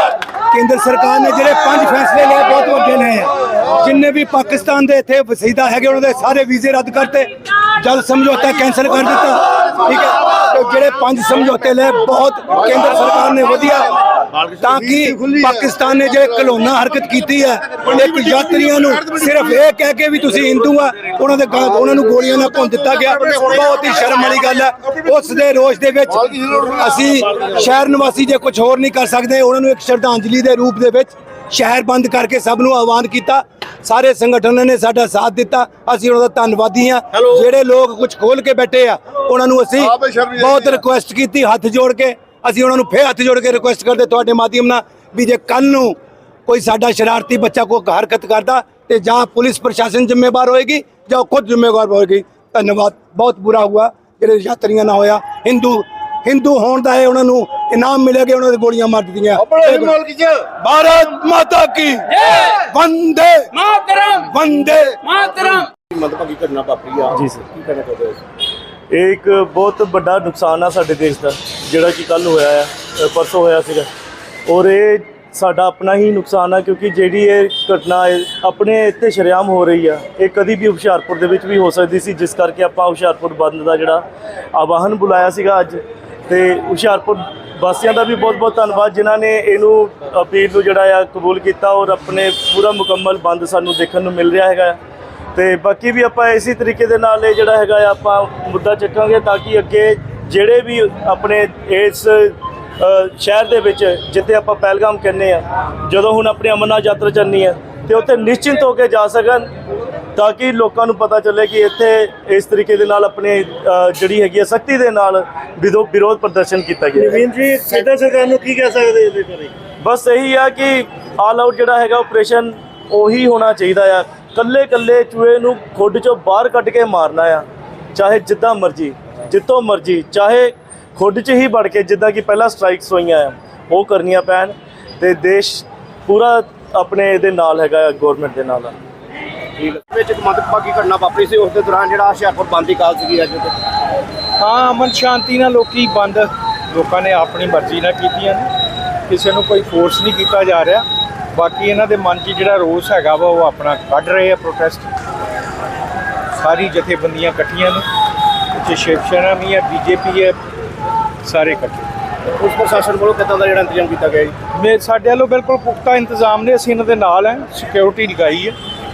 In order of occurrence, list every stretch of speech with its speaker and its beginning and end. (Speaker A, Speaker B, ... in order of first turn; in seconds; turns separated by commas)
Speaker A: 0.5-45.9, Speaker A: 46.5-60.0, Speaker B: 59.6-60.3, Speaker A: 60.6-65.0, Speaker B: 65.2-68.2, Speaker C: 67.1-67.4, Speaker C: 68.9-73.9, Speaker C: 74.5-84.0, Speaker C: 84.5-94.8, Speaker C: 95.3-109.5, Speaker C: 110.1-117.4, Speaker D: 117.0-119.5, Speaker C: 119.8-138.7, Speaker B: 139.6-143.5, Speaker E: 144.4-148.5, Speaker E: 149.1-154.9, Speaker E: 156.3-157.8, Speaker E: 158.6-160.3, Speaker E: 161.2-161.9, Speaker B: 162.3-164.3, Speaker E: 164.5-168.6